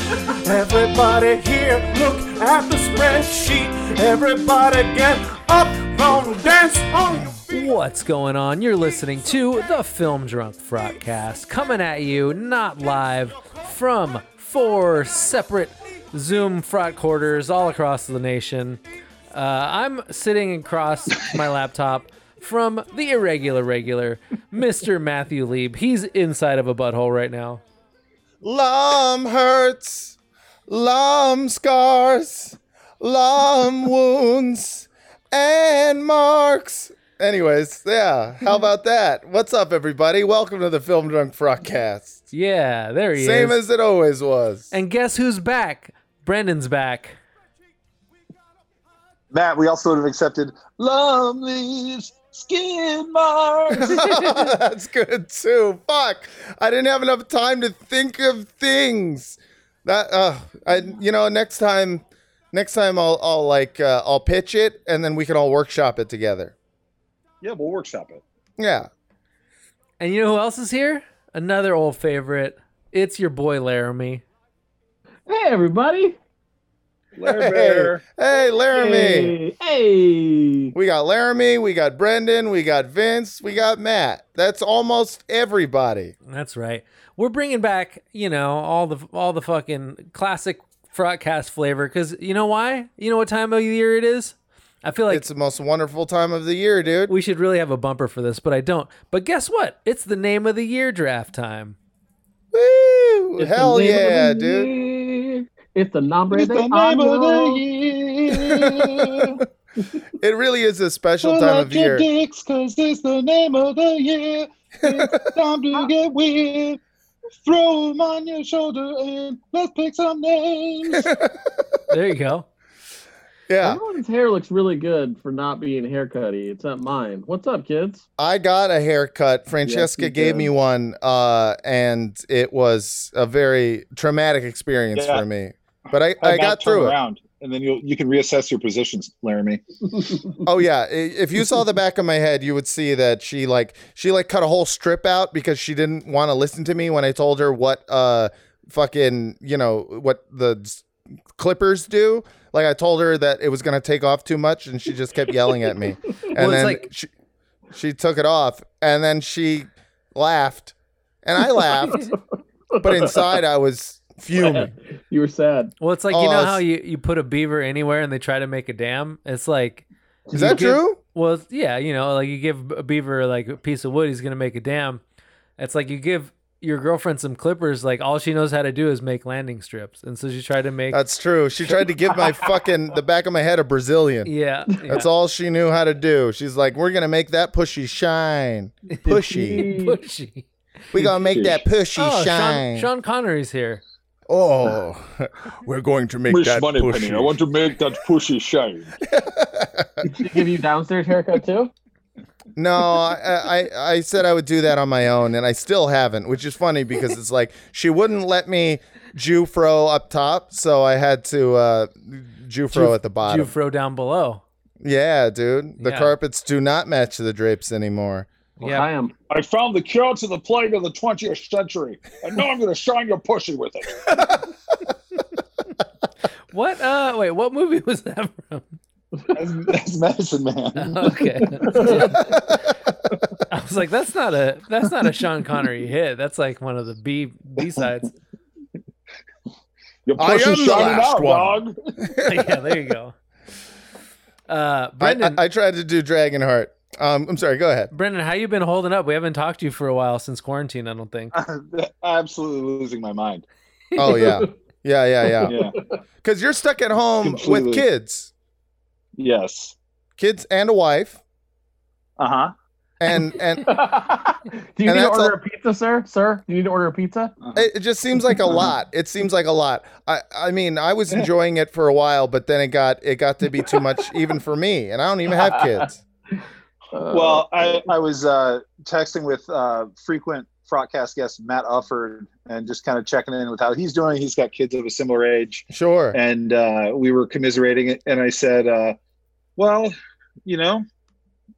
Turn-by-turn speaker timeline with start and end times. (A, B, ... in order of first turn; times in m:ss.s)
0:00.6-0:02.1 A
0:02.1-0:02.4 B
0:02.6-0:03.5 A
0:03.0-0:04.2 B
0:04.4-0:04.9 A
0:04.8-0:06.6 B
0:06.0-0:07.4 A
0:07.5-0:18.8 C
0:19.3-0:27.6 C
0:28.4-0:30.2 A
0:30.7-0:42.3 A
0:42.3-0:43.6 C
0:43.2-0:44.7 A
0:44.7-0:47.2 C
0:49.3-0:54.0 D
0:53.7-1:06.5 A
1:07.4-1:08.2 D
1:08.6-1:08.9 A
1:10.0-1:14.2 C
1:15.3-1:16.2 E
1:17.2-1:18.0 D
1:17.2-1:19.3 A
1:18.7-1:20.7 E
1:20.7-1:26.1 A
1:26.3-1:35.2 C
1:35.1-1:37.1 A
1:37.1-1:41.8 C
1:42.5-1:44.7 A
1:43.6-1:47.6 E
1:46.3-1:49.4 D
1:48.4-1:49.4 A
1:50.2-1:52.0 A
1:51.2-1:56.8 D
1:54.9-1:55.1 A
1:57.4-2:01.1 D
2:00.9-2:01.5 A
2:01.9-2:02.4 C
2:03.5-2:03.8 A
2:03.6-2:08.0 E
2:08.2-2:17.0 A
2:09.6-2:10.5 E
2:14.9-2:15.2 D
2:15.9-2:19.6 D
2:20.4-2:30.8 A
2:31.4-2:37.1 A
2:36.4-2:36.8 C
2:37.7-2:40.7 A
2:41.2-2:42.0 A
2:41.6-2:42.1 E
2:42.8-2:43.2 E
2:42.8-2:44.7 A
2:44.3-2:45.7 E
2:45.8-2:55.0 C
2:46.1-2:46.6 A
2:50.3-2:50.6 E
2:50.3-2:51.0 A
2:55.6-3:01.0 C
3:00.9-3:04.3 A
3:04.2-3:05.1 C
3:04.8-3:09.7 A
3:09.0-3:10.0 E
3:09.5-3:10.5 C
3:10.9-3:12.9 A
3:11.0-3:11.6 D
3:12.0-3:13.8 C
3:14.3-3:16.3 A
3:16.2-3:17.3 B
3:16.3-3:19.0 D
3:19.1-3:20.1 A
3:20.1-3:21.7 E
3:22.6-3:33.5 A
3:32.7-3:34.4 C
3:34.8-3:38.3 A
3:35.8-3:36.1 C
3:38.6-3:38.9 C
3:38.6-3:39.1 E
3:39.3-3:44.1 D
3:44.1-3:44.4 A
3:46.5-3:48.8 C
3:49.3-3:51.2 D
3:50.8-3:52.4 C
3:51.7-3:52.1 E
3:52.2-3:52.6 A
3:53.5-3:58.1 C
4:00.0-4:01.7 D
4:00.2-4:02.5 A
4:02.2-4:03.1 C
4:04.5-4:05.4 C
4:05.0-4:07.9 A
4:07.9-4:11.3 C
4:11.3-4:13.4 D
4:14.0-4:15.5 A
4:15.4-4:15.7 D
4:16.2-4:18.3 A
4:17.2-4:17.8 D
4:19.2-4:19.8 D
4:20.2-4:21.2 A
4:22.2-4:22.5 D
4:23.0-4:23.7 A
4:23.6-4:27.3 E
4:24.8-4:25.3 A
4:27.5-4:36.0 A
4:36.9-4:37.9 E
4:37.1-4:49.0 D
4:45.7-4:46.2 A
4:49.6-4:49.9 D
4:50.4-4:50.8 D